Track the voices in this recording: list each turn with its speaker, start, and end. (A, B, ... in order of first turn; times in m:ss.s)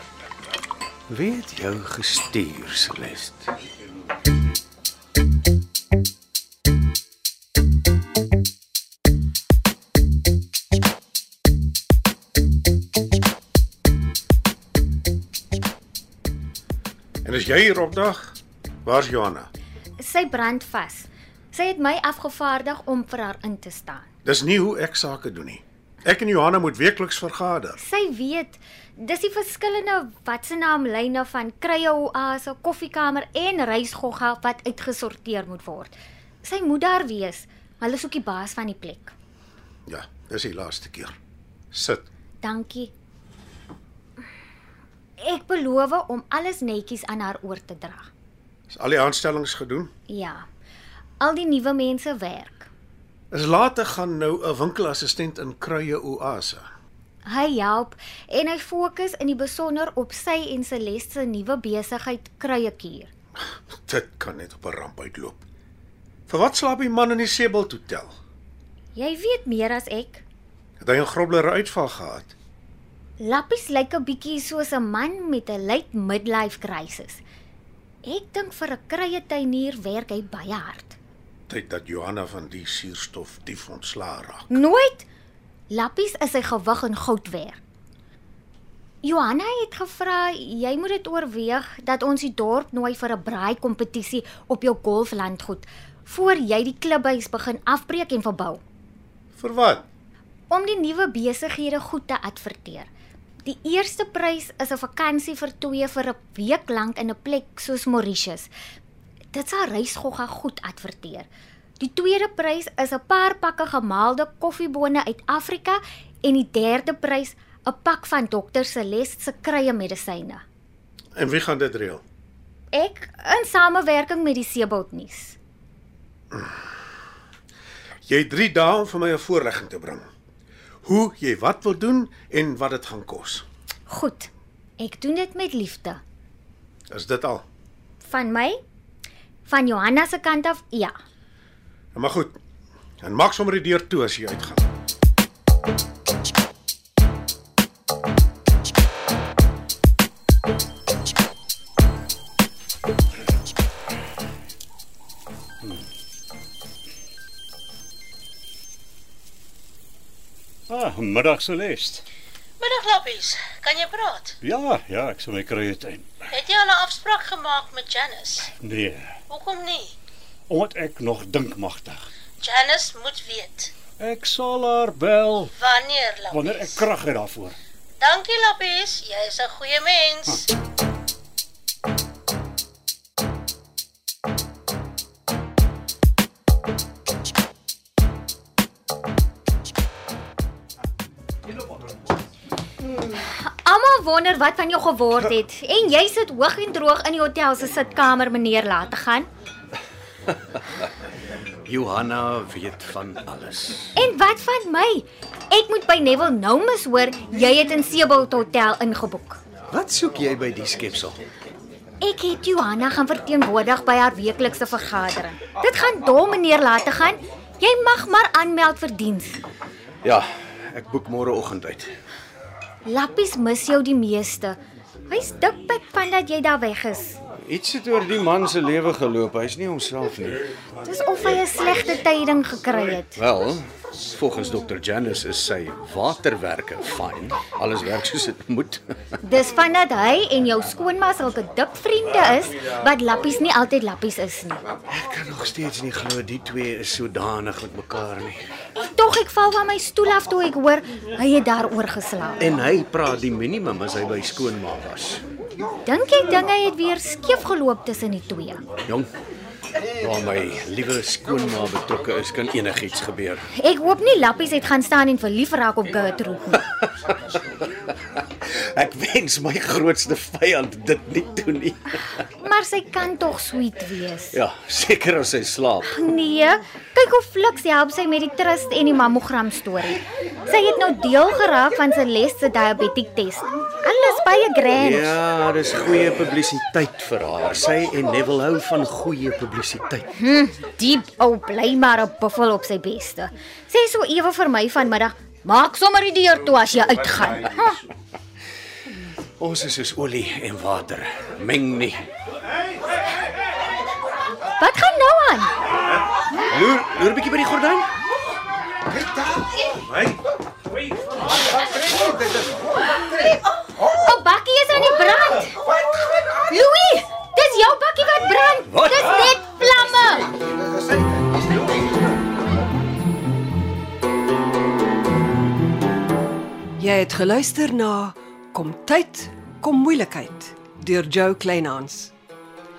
0:01.1-0:03.5 A
0:17.2-0:19.5 B
0:20.0-0:24.1 C
0:24.2-0:27.8 B
0:27.8-0:39.1 C
0:39.9-0:41.1 B
0:41.7-0:42.0 B
0:42.4-0:42.9 C
0:45.2-0:48.1 C
0:48.7-0:49.9 B
0:50.1-0:50.4 C
0:51.2-0:52.7 C
0:53.3-0:56.7 B
0:57.3-1:03.1 C
1:03.7-1:05.4 B
1:06.3-1:08.1 B
1:08.9-1:10.2 C
1:10.8-1:12.3 B
1:13.2-1:17.2 C
1:18.0-1:21.0 C
1:21.5-1:24.5 B
1:24.5-1:25.0 C
1:25.7-1:27.6 C
1:29.0-1:38.6 C
1:39.4-1:39.8 B
1:40.5-1:42.9 C
1:43.4-1:48.5 C
1:49.3-1:51.3 C
1:51.8-2:00.4 C
2:01.2-2:02.0 B
2:02.7-2:05.4 C
2:06.3-2:06.6 B
2:08.0-2:10.0 B
2:10.8-2:13.4 B
2:13.9-2:16.0 C
2:16.9-2:17.4 B
2:18.0-2:18.6 C
2:19.4-2:20.9 C
2:21.9-2:22.4 B
2:23.0-2:24.6 B
2:40.7-2:42.0 D
2:42.6-2:44.4 E
2:44.4-2:46.1 D
2:46.3-2:48.5 E
2:48.6-2:49.1 D
2:49.3-2:49.9 E
2:50.5-2:52.0 D
2:52.4-2:53.7 E
2:54.0-2:55.5 D
2:55.5-2:56.8 E
2:56.3-2:57.6 D
2:58.0-3:00.5 E
3:12.9-3:19.3 C
3:21.6-3:23.9 A
3:24.0-3:29.4 C
3:29.7-3:31.2 A
3:32.0-3:39.4 C
3:40.0-3:41.9 A
3:42.8-3:47.2 C
3:47.4-3:50.4 A
3:50.8-3:53.2 C
3:53.2-3:58.8 A
3:59.2-4:04.6 C
4:04.9-4:08.4 A
4:08.8-4:12.4 C
4:12.4-4:15.2 A
4:15.8-4:18.6 C
4:19.8-4:23.4 A
4:23.6-4:26.6 C
4:27.1-4:32.1 A
4:32.4-4:34.4 C
4:34.3-4:35.9 A
4:35.8-4:45.1 C
4:44.7-4:50.0 A
4:50.1-4:57.8 C
4:59.4-5:02.0 A
5:04.6-5:05.5 C
5:06.5-5:07.9 A
5:09.8-5:10.1 B
5:13.8-5:15.6 C
5:16.3-5:20.3 C
5:18.7-5:19.4 D
5:26.8-5:32.1 F